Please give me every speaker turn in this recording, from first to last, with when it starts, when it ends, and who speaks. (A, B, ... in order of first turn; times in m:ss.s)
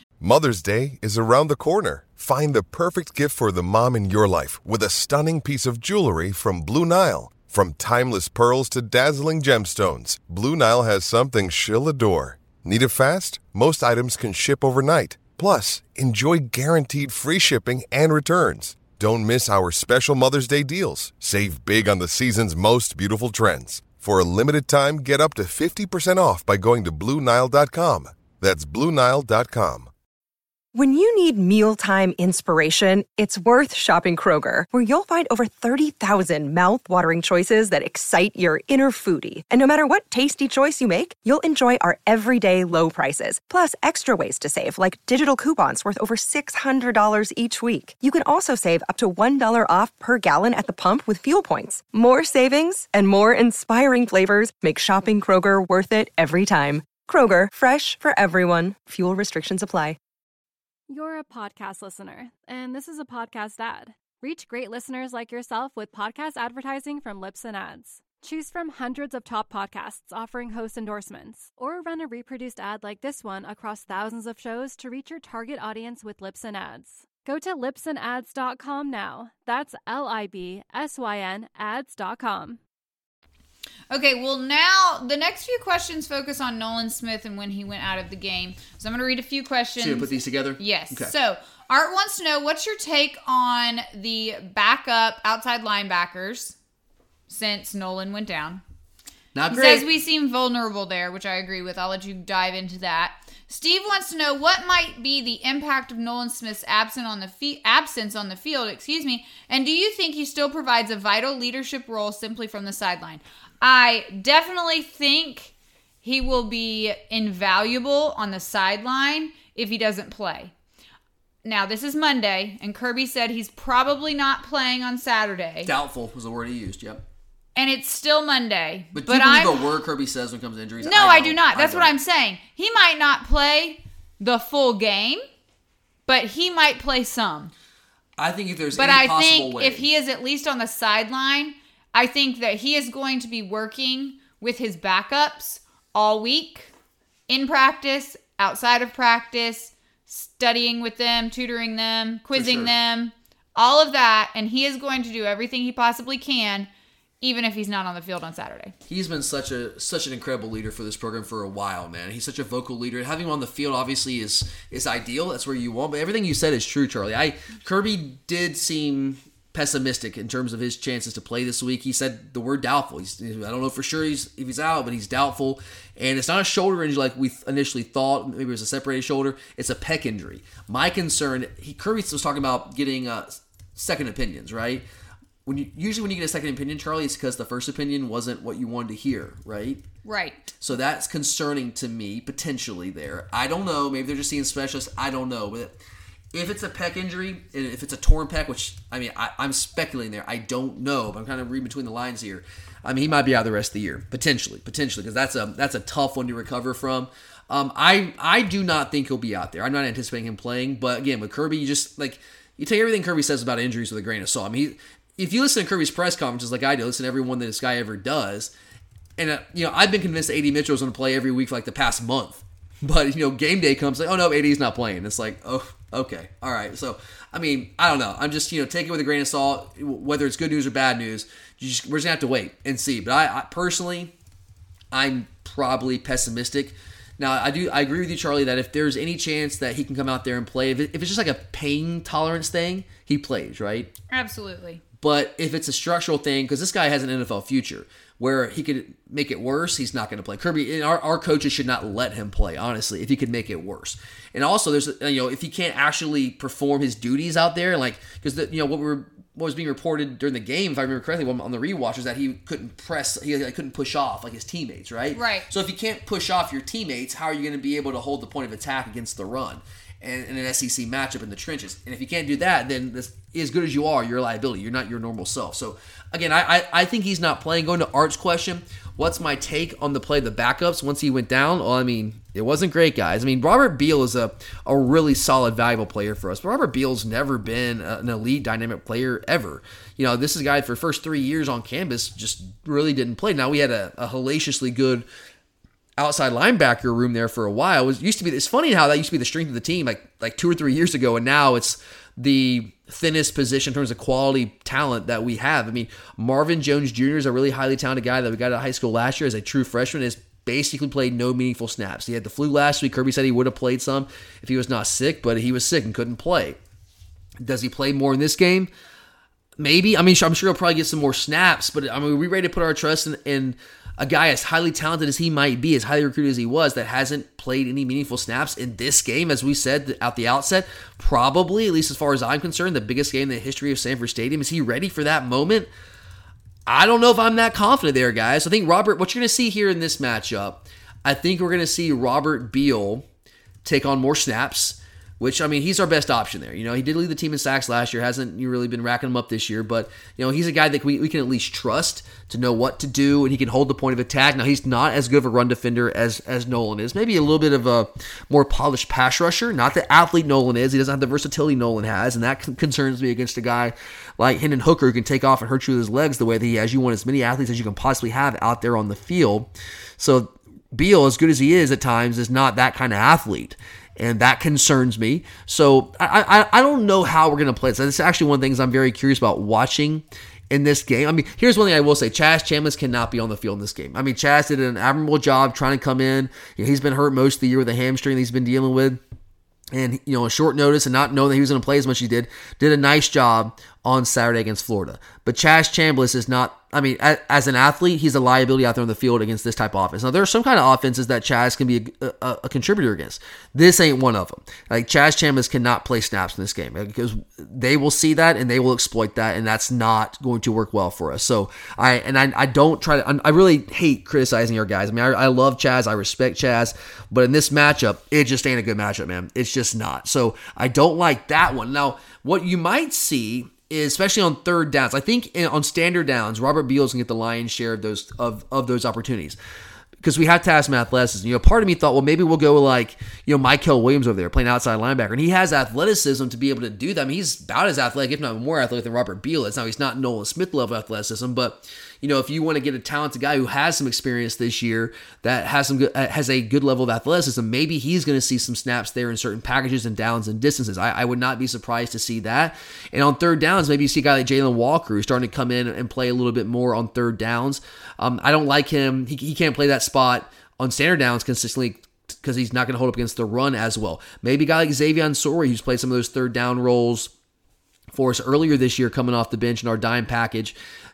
0:00.2-0:29.9 A
0:30.7-1:00.0 B
1:00.9-1:22.6 C
1:23.9-1:36.6 D
1:29.8-1:31.1 E
1:37.3-1:38.6 D
1:39.3-1:39.9 E
1:39.5-2:00.5 D
2:01.4-2:05.7 D
2:05.6-2:07.0 E
2:07.6-2:09.7 D
2:08.9-2:12.0 E
2:10.8-2:15.2 D
2:16.1-2:17.5 D
2:18.2-2:19.9 E
2:18.7-2:26.7 D
2:27.3-2:36.7 D
2:32.3-2:32.7 E
2:37.2-2:38.7 D
2:38.9-3:04.9 E
3:05.5-3:09.8 E
3:10.0-3:10.5 D
3:10.6-3:15.8 E
3:16.3-3:38.5 E
3:39.2-3:54.1 E
3:54.9-4:03.9 E
4:04.1-4:04.8 D
4:05.0-4:55.1 E
4:25.1-4:25.5 D
4:56.0-5:16.6 E
5:17.4-5:18.7 E
5:19.6-5:35.7 E
5:36.7-5:43.1 E
5:43.6-6:29.0 E
6:29.7-7:09.4 E
7:10.0-7:47.1 E
7:47.9-7:50.6 E